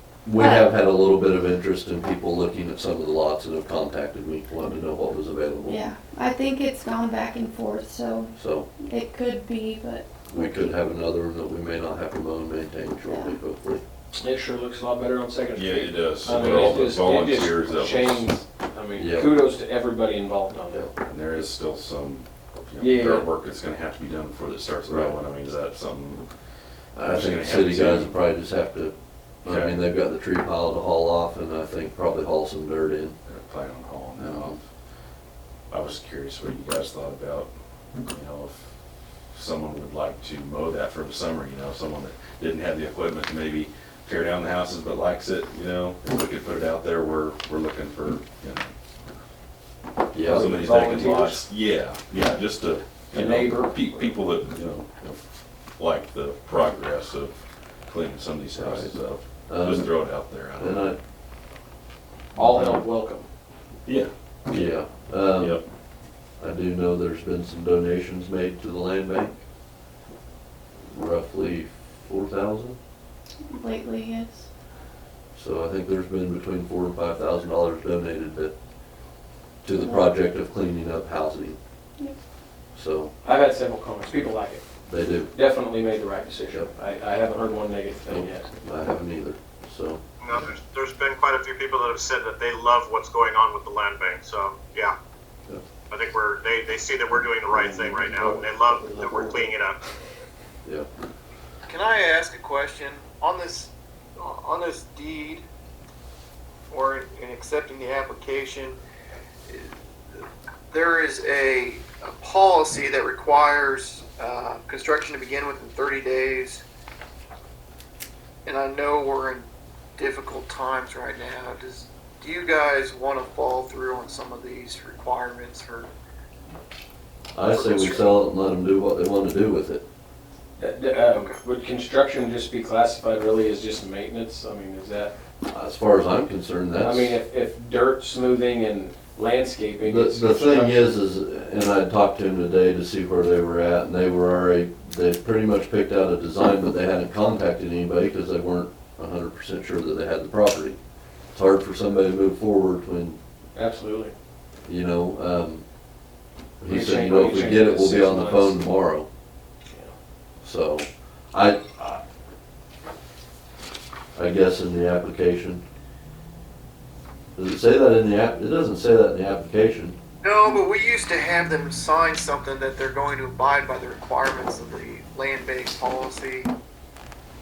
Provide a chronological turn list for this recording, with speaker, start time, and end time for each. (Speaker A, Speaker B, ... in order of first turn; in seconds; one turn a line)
Speaker A: 0.2-5.8
Speaker B: 0.3-0.7
Speaker B: 5.7-10.7
Speaker A: 8.3-8.7
Speaker A: 10.3-13.8
Speaker B: 13.0-13.4
Speaker C: 14.1-20.9
Speaker D: 15.5-18.3
Speaker A: 16.2-17.0
Speaker A: 19.0-19.4
Speaker D: 21.0-26.3
Speaker C: 22.8-23.3
Speaker A: 24.9-25.1
Speaker A: 26.9-33.2
Speaker D: 27.0-28.1
Speaker D: 29.4-29.8
Speaker D: 33.2-34.6
Speaker A: 34.2-34.6
Speaker D: 35.7-37.5
Speaker D: 38.0-38.7
Speaker D: 39.3-48.7
Speaker A: 50.1-50.5
Speaker C: 50.2-51.5
Speaker D: 50.2-55.2
Speaker C: 53.1-54.1
Speaker D: 55.7-61.0
Speaker A: 58.6-58.9
Speaker A: 59.5-59.9
Speaker A: 60.6-61.0
Speaker A: 62.4-62.8
Speaker C: 62.4-63.3
Speaker D: 63.9-64.1
Speaker A: 64.5-65.6
Speaker D: 65.4-65.6
Speaker A: 66.4-69.3
Speaker A: 70.9-72.8
Speaker B: 73.5-74.5
Speaker A: 75.3-78.5
Speaker A: 79.6-81.6
Speaker B: 79.7-80.1
Speaker A: 82.7-83.1
Speaker C: 83.2-84.6
Speaker A: 84.9-85.3
Speaker C: 85.3-88.5
Speaker A: 88.1-90.0
Speaker E: 90.2-94.9
Speaker E: 95.9-99.8
Speaker C: 97.5-99.5
Speaker F: 101.7-105.4
Speaker F: 106.7-108.8
Speaker F: 109.5-116.6
Speaker F: 118.5-125.9
Speaker A: 127.3-129.8
Speaker F: 127.5-128.1
Speaker C: 130.6-135.1
Speaker F: 131.1-131.4
Speaker A: 135.5-137.2
Speaker C: 136.8-140.9
Speaker A: 139.8-150.8
Speaker A: 151.3-153.2
Speaker C: 153.5-154.1
Speaker A: 154.7-155.6
Speaker A: 156.6-159.1
Speaker C: 156.7-158.6
Speaker C: 159.7-159.9
Speaker A: 160.4-162.0
Speaker A: 164.1-165.6
Speaker A: 167.3-170.0
Speaker F: 170.2-176.5